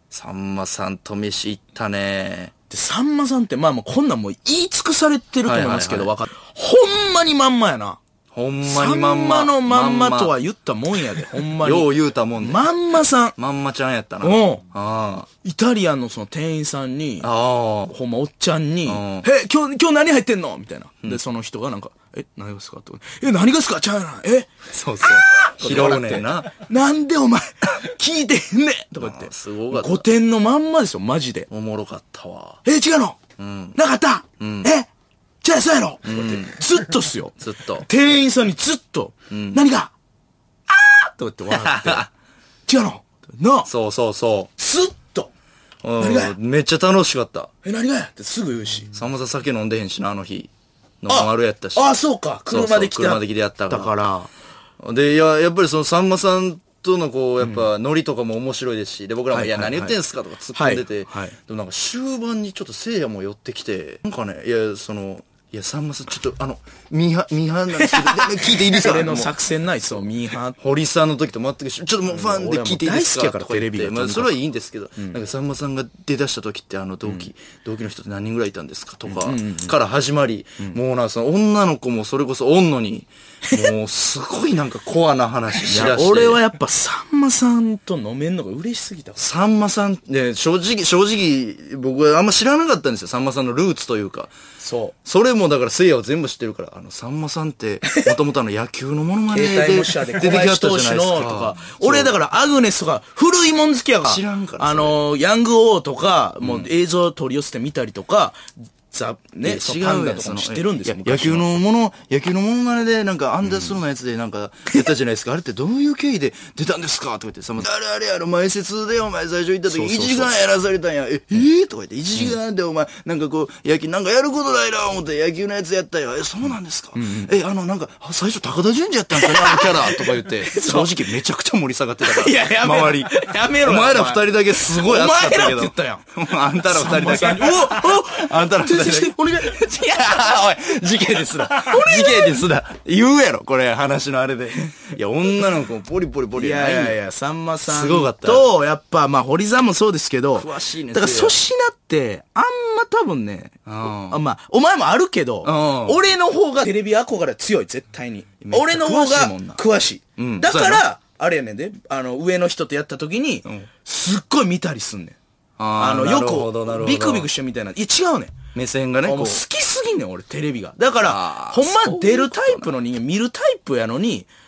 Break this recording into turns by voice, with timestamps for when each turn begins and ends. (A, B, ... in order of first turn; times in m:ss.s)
0:00.1-0:02.5 A
0:02.7-0:08.0 B
0:05.4-0:06.1 A
0:08.3-0:10.3 A
0:08.6-0:13.4 B
0:11.2-0:12.6 A
0:13.4-0:15.3 A
0:14.2-0:14.6 B
0:15.4-0:17.3 B
0:17.2-0:18.0 A
0:17.9-0:31.5 B
0:18.9-0:19.3 A
0:24.7-0:26.5 A
0:29.0-0:30.0 A
0:31.5-0:32.6 A
0:32.6-0:33.2 B
0:33.4-0:33.8 A
0:33.8-0:34.9 B
0:34.4-0:34.7 A
0:35.4-0:39.9 B
0:36.0-0:36.6 A
0:37.4-0:37.9 A
0:39.3-0:39.6 A
0:40.7-0:42.1 B
0:41.5-0:42.1 A
0:42.7-0:43.7 B
0:43.7-0:44.5 A
0:44.6-0:45.3 B
0:45.8-0:47.5 A
0:46.0-0:46.4 B
0:47.6-0:48.9 B
0:48.9-0:50.5 A
0:51.0-0:51.9 A
0:51.1-0:54.3 B
0:52.5-0:53.9 A
0:54.8-1:09.3 A
0:57.4-0:57.7 B
0:59.3-1:00.0 B
1:00.5-1:01.4 B
1:07.8-1:10.6 B
1:10.6-1:26.4 A
1:12.1-1:14.4 B
1:19.1-1:19.7 B
1:25.6-1:29.2 B
1:29.2-1:34.3 A
1:34.6-1:35.0 B
1:35.0-1:42.2 A
1:39.3-1:51.6 B
1:44.0-1:45.0 A
1:46.4-1:46.7 A
1:49.4-2:27.0 A
1:59.7-2:00.4 B
2:07.0-2:07.3 B
2:09.1-2:11.2 B
2:12.0-2:16.0 B
2:16.7-2:19.7 B
2:21.6-2:22.4 B
2:26.4-2:45.2 B
2:27.7-2:28.5 A
2:30.4-2:31.4 A
2:33.7-2:34.2 A
2:35.4-2:36.0 A
2:38.4-2:39.6 A
2:40.2-2:40.8 A
2:45.6-2:47.3 A
2:45.8-2:48.4 B
2:48.5-2:49.4 A
2:49.0-2:54.3 B
2:51.0-2:52.7 A